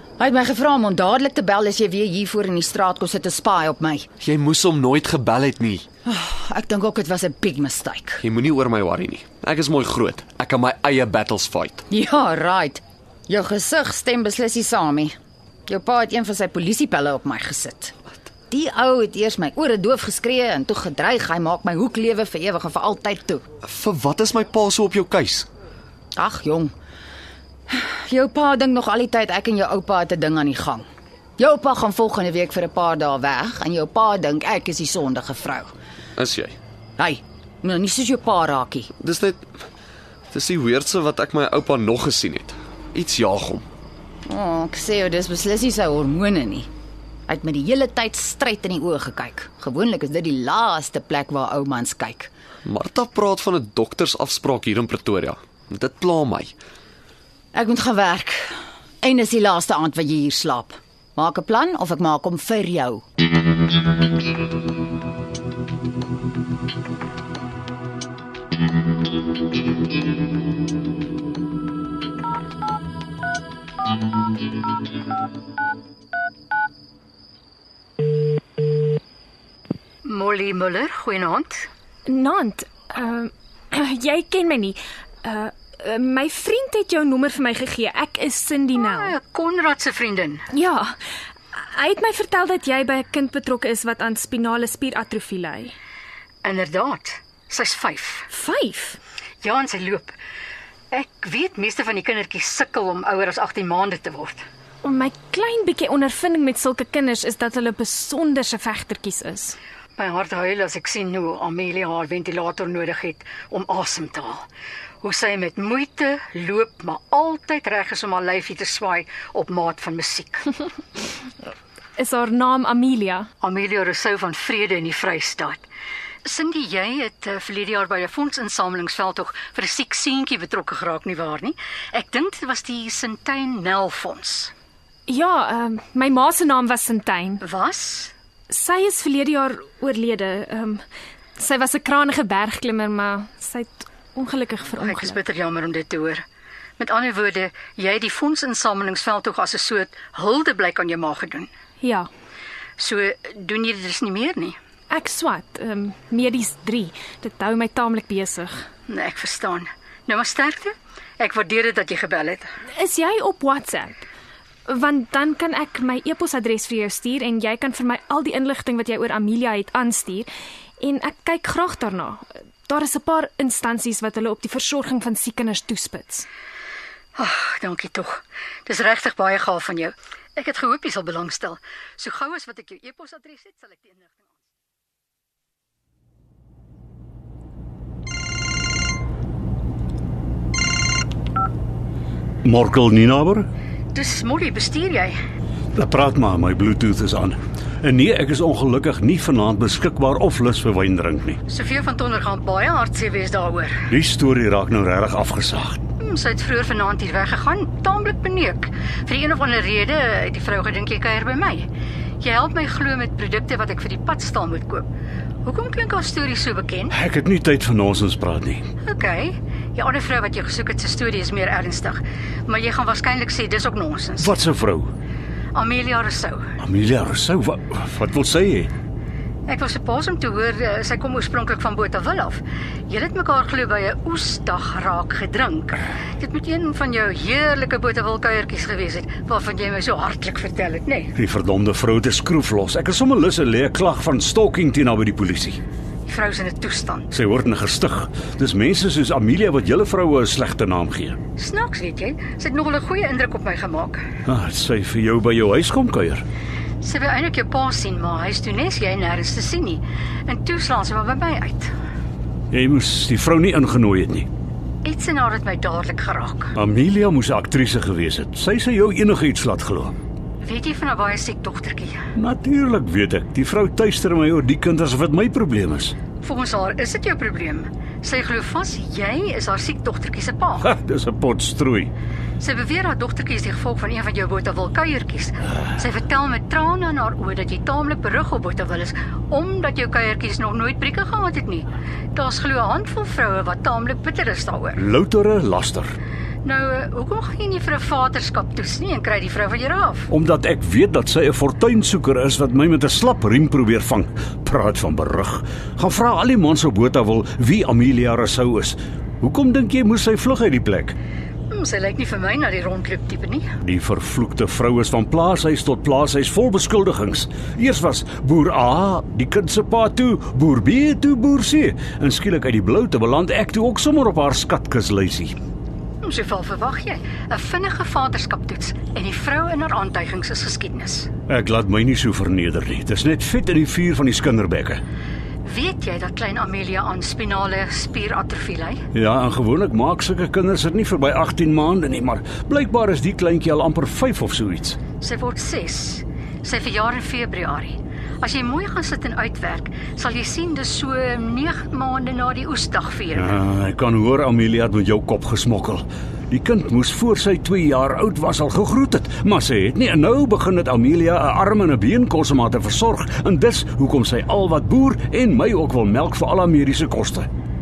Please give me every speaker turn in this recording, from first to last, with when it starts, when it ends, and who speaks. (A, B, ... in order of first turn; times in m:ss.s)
0:00.2-0:04.1 A
0:04.2-0:05.8 B
0:06.1-0:08.2 A
0:08.2-0:11.8 B
0:11.9-0:15.1 A
0:15.7-0:17.9 A
0:18.5-0:23.4 A
0:23.6-0:25.5 B
0:26.2-0:26.7 A
0:27.7-0:30.8 A
0:31.4-0:35.7 A
0:36.2-0:36.6 B
0:37.0-0:38.9 A
0:39.0-0:39.4 B
0:40.3-0:43.6 B
0:44.3-0:46.7 A
0:47.3-0:52.3 A
0:52.6-0:56.5 B
0:57.5-0:58.5 A
0:59.0-1:03.0 A
1:20.0-1:21.7 C
1:22.1-1:29.1 D
1:28.8-1:30.4 C
1:30.5-1:30.9 D
1:31.6-1:35.7 D
1:36.4-1:38.3 C
1:38.3-1:39.0 D
1:39.4-1:40.2 C
1:40.9-1:44.4 C
1:44.8-1:49.6 D
1:50.0-1:54.4 C
1:55.0-2:00.4 C
2:02.0-2:03.3 D
2:03.4-2:05.6 C
2:06.2-2:14.5 C
2:15.1-2:17.4 D
2:17.4-2:18.1 C
2:18.5-2:20.8 D
2:21.4-2:25.2 D
2:24.7-2:26.2 C
2:26.8-2:31.5 C
2:31.8-2:32.1 D
2:32.8-2:34.6 C
2:34.9-2:38.6 D
2:38.9-2:42.5 C
2:42.8-2:44.0 D
2:44.7-2:50.3 D
2:50.8-2:56.3 D
2:57.2-3:04.3 C
3:12.4-3:13.5 E
3:13.9-3:15.1 C
3:15.7-3:21.4 E
3:21.5-3:23.8 C
3:23.9-3:25.8 E
3:26.0-3:31.7 C
3:32.2-3:34.8 C
3:35.4-3:37.0 C
3:36.9-3:38.6 E
3:38.8-3:44.4 C
3:44.2-3:44.9 E
3:45.5-3:46.4 C
3:46.6-3:48.7 E
3:49.5-4:01.1 C
4:01.2-4:05.6 E
4:06.1-4:07.1 C
4:07.1-4:11.2 E
4:11.4-4:14.0 C
4:14.2-4:16.2 E
4:16.8-4:21.7 C
4:22.5-4:24.3 E
4:24.8-4:26.5 C
4:26.6-4:29.9 E
4:30.4-4:32.0 C
4:32.2-4:36.0 E
4:36.2-4:40.7 C
4:40.6-4:41.9 E
4:42.4-4:54.8 C
4:54.8-4:55.9 E
4:56.4-5:00.1 C
5:00.1-5:11.0 E
5:11.5-5:13.4 C
5:13.6-5:25.4 E
5:26.0-5:31.1 C
5:31.3-5:34.8 E
5:35.4-5:38.8 C
5:38.9-5:44.8 E
5:45.0-5:53.4 C
5:53.1-6:07.3 E